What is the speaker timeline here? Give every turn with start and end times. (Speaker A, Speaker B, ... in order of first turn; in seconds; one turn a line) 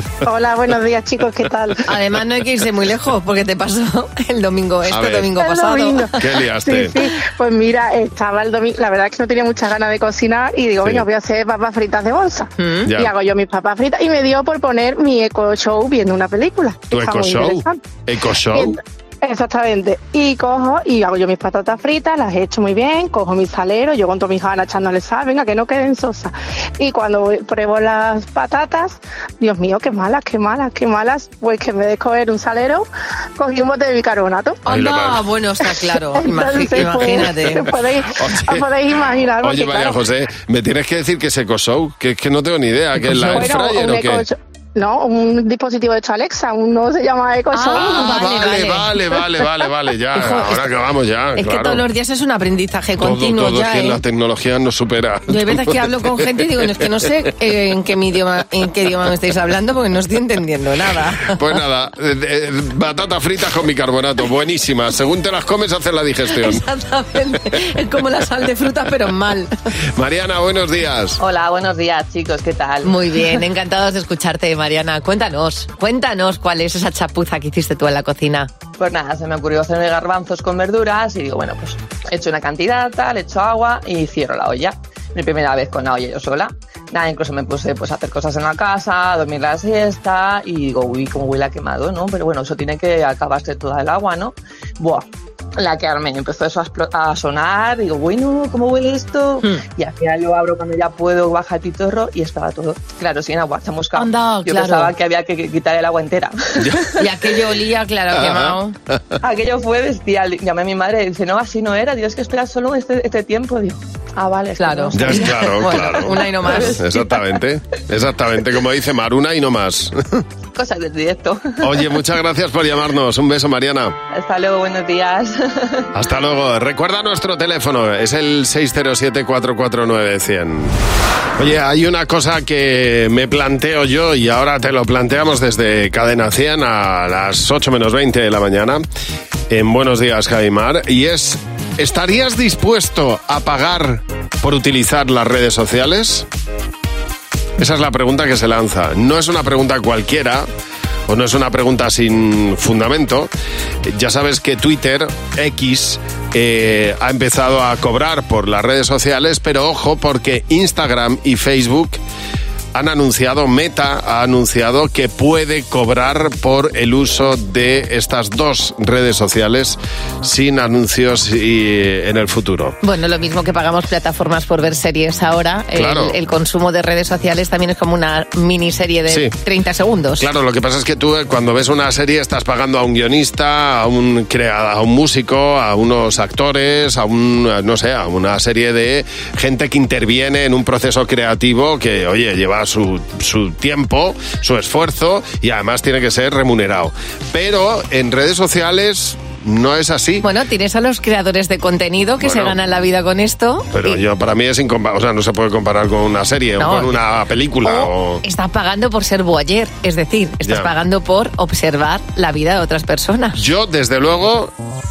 Speaker A: 0.2-1.8
Speaker B: 1.9-6.1
Speaker C: 4.9-5.3
Speaker A: 5.4-17.8
Speaker C: 6.2-7.0
Speaker B: 12.6-12.9
Speaker C: 12.9-13.1
Speaker C: 16.9-18.8
Speaker A: 18.5-34.6
Speaker B: 34.7-37.7
Speaker C: 34.7-35.2
Speaker A: 36.0-40.0
Speaker C: 38.2-38.7
Speaker C: 39.4-44.2
Speaker B: 43.0-43.5
Speaker A: 43.1-48.3
Speaker B: 47.5-48.9
Speaker C: 47.7-51.8
Speaker B: 50.1-50.7
Speaker B: 51.4-54.0
Speaker C: 53.0-56.4
Speaker B: 55.3-61.4
Speaker C: 61.2-66.6
Speaker B: 66.3-69.5
Speaker C: 70.0-71.2
Speaker D: 71.2-73.4
Speaker B: 72.8-78.5
Speaker D: 78.8-95.1
Speaker D: 95.6-106.9
Speaker B: 104.0-104.9
Speaker C: 106.6-106.9
Speaker B: 107.0-108.8
Speaker C: 108.2-108.6
Speaker D: 109.2-115.3
Speaker B: 114.6-116.8
Speaker C: 114.9-120.2
Speaker D: 116.4-117.0
Speaker D: 120.5-121.9
Speaker C: 121.6-124.0
Speaker D: 124.1-125.9
Speaker C: 125.9-130.7
Speaker C: 131.4-138.8
Speaker C: 139.5-146.2
Speaker C: 147.6-150.5
Speaker C: 151.1-153.3
Speaker C: 153.9-162.0
Speaker C: 162.7-172.8
Speaker B: 172.8-180.3
Speaker C: 175.8-176.2
Speaker C: 179.1-179.3
Speaker C: 180.2-200.2
Speaker B: 200.2-204.0
Speaker C: 202.2-202.6
Speaker C: 203.7-208.2
Speaker B: 206.6-206.9
Speaker B: 207.6-213.4
Speaker C: 210.4-210.7
Speaker C: 213.4-214.5